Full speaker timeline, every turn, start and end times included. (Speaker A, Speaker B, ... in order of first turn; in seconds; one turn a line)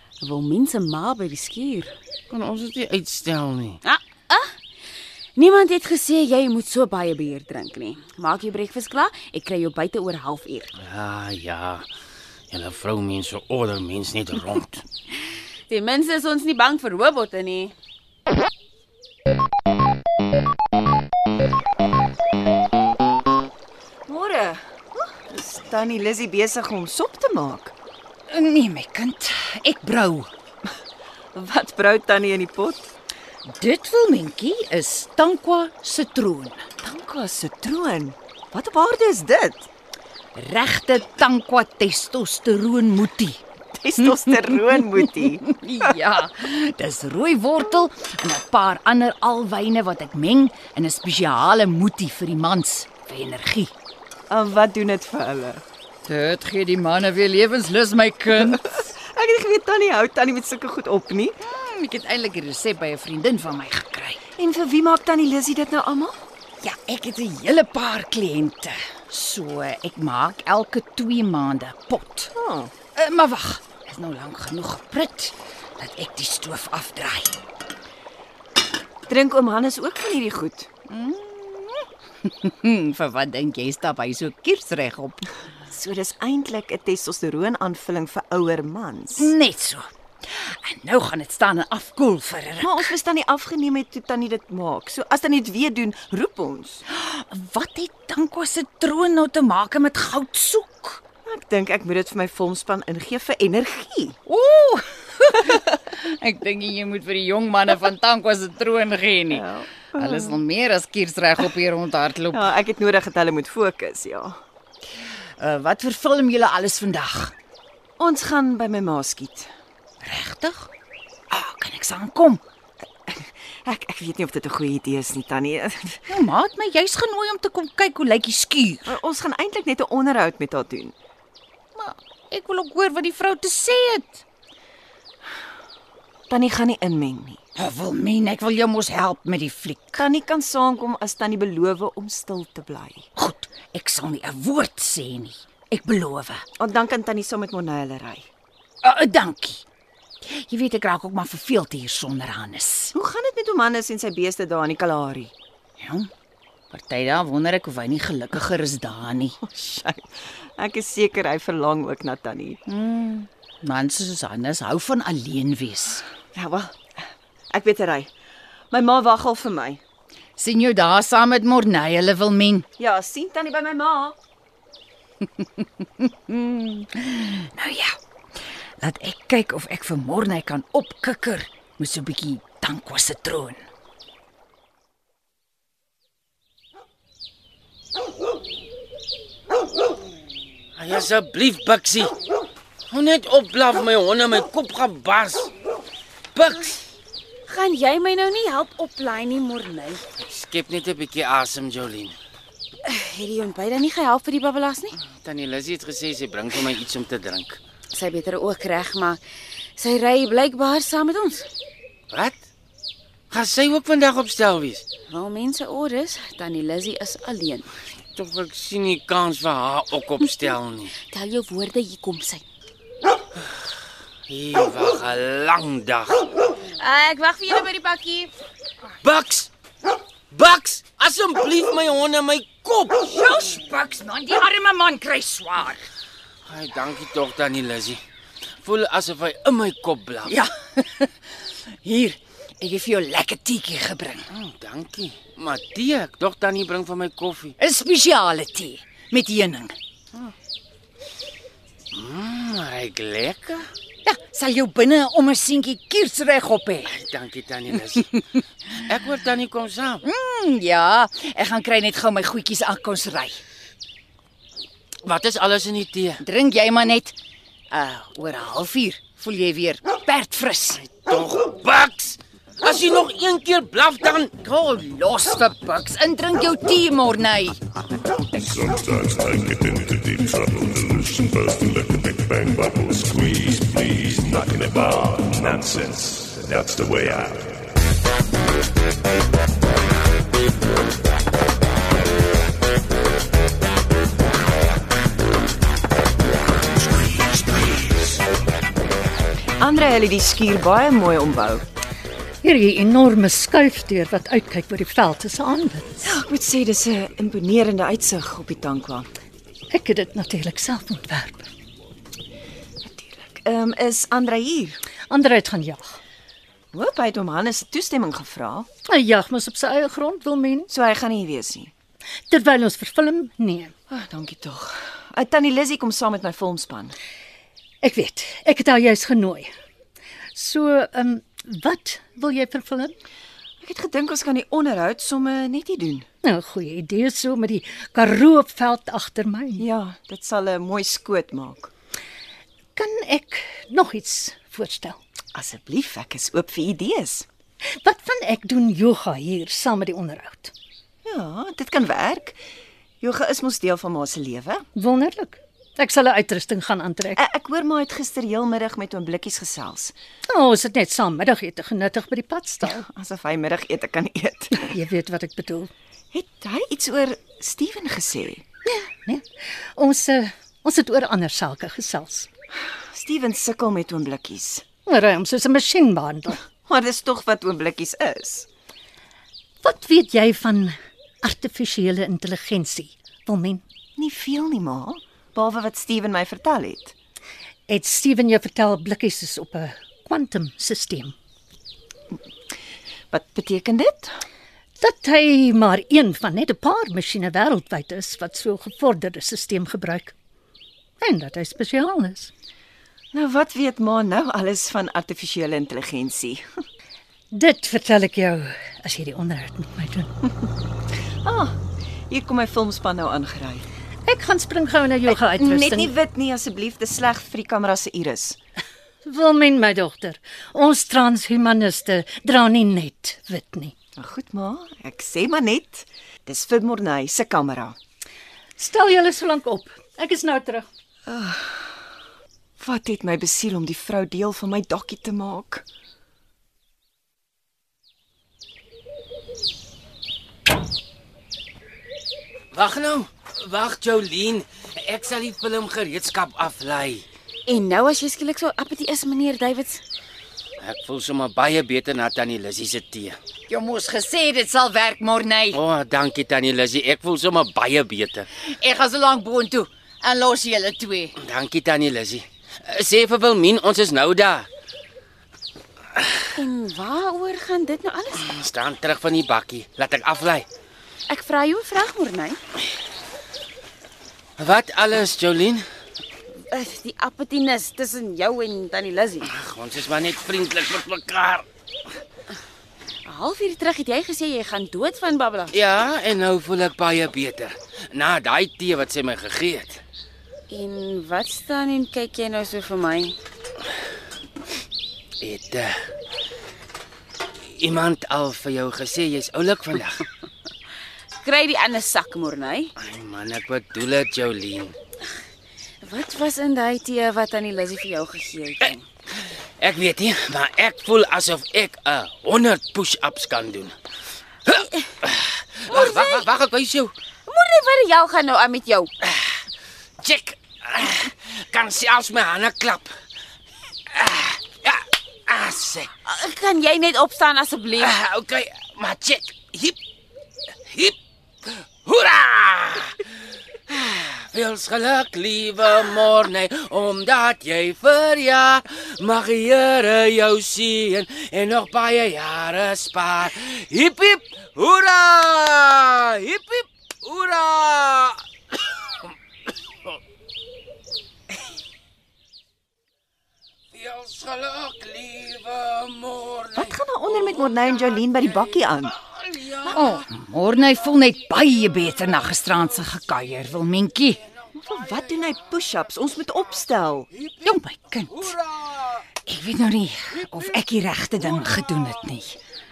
Speaker A: 0.2-1.9
Speaker B: 2.3-3.8
Speaker A: 3.9-4.5
Speaker A: 5.4-10.7
Speaker B: 10.8-11.9
Speaker B: 12.5-14.8
Speaker A: 15.7-17.7
Speaker C: 24.1-27.7
Speaker D: 28.3-30.3
Speaker C: 31.3-32.9
Speaker D: 33.5-36.7
Speaker C: 36.8-39.7
Speaker D: 40.4-43.4
Speaker C: 43.7-45.5
Speaker D: 44.1-44.6
Speaker D: 45.5-53.7
Speaker C: 54.3-55.6
Speaker D: 56.1-58.6
Speaker C: 58.4-61.4
Speaker D: 61.4-64.2
Speaker C: 64.4-66.2
Speaker D: 66.6-72.3
Speaker C: 72.4-72.7
Speaker D: 72.9-77.4
Speaker C: 79.1-80.7
Speaker D: 80.9-85.3
Speaker C: 85.7-89.3
Speaker D: 89.2-92.9
Speaker C: 92.6-96.8
Speaker D: 96.9-101.0
Speaker C: 101.3-104.2
Speaker D: 104.3-109.4
Speaker C: 109.3-110.4
Speaker D: 110.0-112.5
Speaker C: 112.3-114.4
Speaker D: 115.4-117.3
Speaker C: 118.0-119.5
Speaker D: 120.0-120.7
Speaker D: 121.3-122.4
Speaker C: 123.1-126.1
Speaker D: 126.1-129.0
Speaker C: 128.9-130.9
Speaker D: 131.8-134.2
Speaker C: 136.3-137.4
Speaker D: 137.6-140.0
Speaker C: 140.0-143.1
Speaker D: 143.2-146.4
Speaker C: 146.6-148.3
Speaker D: 148.8-149.6
Speaker D: 150.2-152.9
Speaker C: 152.9-155.3
Speaker D: 155.8-156.1
Speaker D: 156.7-159.4
Speaker C: 159.4-162.6
Speaker D: 162.7-166.1
Speaker C: 166.3-168.1
Speaker C: 168.7-169.8
Speaker D: 170.4-172.7
Speaker C: 172.8-174.2
Speaker D: 176.0-177.9
Speaker D: 178.8-183.6
Speaker B: 190.8-192.2
Speaker B: 192.9-195.5
Speaker B: 196.3-196.8
Speaker A: 197.5-200.1
Speaker B: 200.2-202.2
Speaker A: 202.8-205.0
Speaker B: 205.0-207.6
Speaker A: 207.9-209.2
Speaker A: 209.8-211.5
Speaker B: 212.1-212.4
Speaker B: 213.3-214.9
Speaker A: 215.1-217.7
Speaker B: 218.2-220.9
Speaker A: 221.1-222.4
Speaker B: 224.3-226.4
Speaker A: 226.8-228.3
Speaker B: 229.0-229.5
Speaker B: 230.3-233.1
Speaker D: 233.1-235.8
Speaker B: 236.5-238.0
Speaker B: 238.6-240.4
Speaker D: 240.2-241.1
Speaker D: 241.8-244.3
Speaker B: 244.3-247.6
Speaker D: 247.6-249.8
Speaker B: 251.9-253.7
Speaker D: 254.1-256.9
Speaker B: 256.9-258.2
Speaker B: 258.8-260.0
Speaker D: 260.0-263.4
Speaker B: 265.0-266.2
Speaker D: 266.2-267.1
Speaker D: 267.7-270.9
Speaker B: 271.0-274.4
Speaker D: 274.4-277.6
Speaker E: 279.1-287.5
Speaker C: 299.6-301.6
Speaker F: 302.4-305.9
Speaker C: 306.0-309.1
Speaker F: 309.7-311.5
Speaker C: 312.8-314.8
Speaker F: 315.1-315.8
Speaker C: 316.7-318.7
Speaker F: 318.9-320.7
Speaker C: 320.7-321.7
Speaker F: 322.3-323.7
Speaker C: 323.9-326.9
Speaker F: 327.8-329.5
Speaker F: 330.3-332.9
Speaker C: 333.6-336.1
Speaker F: 336.2-339.6
Speaker C: 339.6-341.7
Speaker F: 342.8-345.0
Speaker C: 345.3-347.3
Speaker F: 347.8-350.5
Speaker C: 351.1-352.4
Speaker C: 353.0-354.7
Speaker F: 354.8-357.2
Speaker C: 357.2-359.9
Speaker F: 360.3-362.9
Speaker C: 362.6-364.7
Speaker F: 364.6-365.7
Speaker C: 366.1-368.4
Speaker F: 368.7-372.3
Speaker C: 372.9-374.6
Speaker F: 374.9-376.4
Speaker C: 376.6-378.5
Speaker F: 379.6-383.6
Speaker C: 384.0-386.9
Speaker F: 387.7-391.1
Speaker C: 393.1-394.2
Speaker F: 394.8-400.2
Speaker F: 401.0-402.3
Speaker C: 403.1-406.4
Speaker F: 407.3-410.1
Speaker C: 411.2-411.6
Speaker C: 412.1-413.7
Speaker F: 414.1-415.9
Speaker C: 415.1-418.4
Speaker F: 419.0-423.7
Speaker C: 424.0-427.8
Speaker F: 428.6-430.7
Speaker C: 431.1-431.8
Speaker C: 432.6-435.6
Speaker B: 442.5-447.1
Speaker A: 447.5-449.8
Speaker B: 450.6-453.2
Speaker D: 453.5-455.6
Speaker B: 455.5-458.3
Speaker D: 458.4-461.1
Speaker B: 461.2-464.5
Speaker A: 466.3-468.3
Speaker B: 468.2-470.5
Speaker A: 471.1-472.4
Speaker B: 474.4-475.6
Speaker A: 476.5-479.3
Speaker B: 479.3-481.5
Speaker A: 483.1-485.5
Speaker B: 485.5-489.8
Speaker A: 490.5-493.2
Speaker B: 495.2-495.7
Speaker B: 497.4-500.1
Speaker A: 501.2-502.7
Speaker B: 502.8-504.8
Speaker A: 505.8-508.9
Speaker B: 509.2-513.8
Speaker B: 514.5-516.9
Speaker A: 514.5-514.9
Speaker A: 515.7-516.3
Speaker A: 517.3-518.9
Speaker B: 519.0-519.4
Speaker B: 520.0-522.9
Speaker B: 523.9-525.9
Speaker A: 526.0-527.9
Speaker B: 527.8-529.8
Speaker B: 530.7-533.0
Speaker B: 533.7-548.2
Speaker B: 553.7-556.8
Speaker C: 556.5-559.0
Speaker B: 559.0-560.0
Speaker D: 559.6-564.2
Speaker C: 564.6-567.1
Speaker D: 567.4-568.4
Speaker B: 568.2-568.7
Speaker D: 569.3-572.4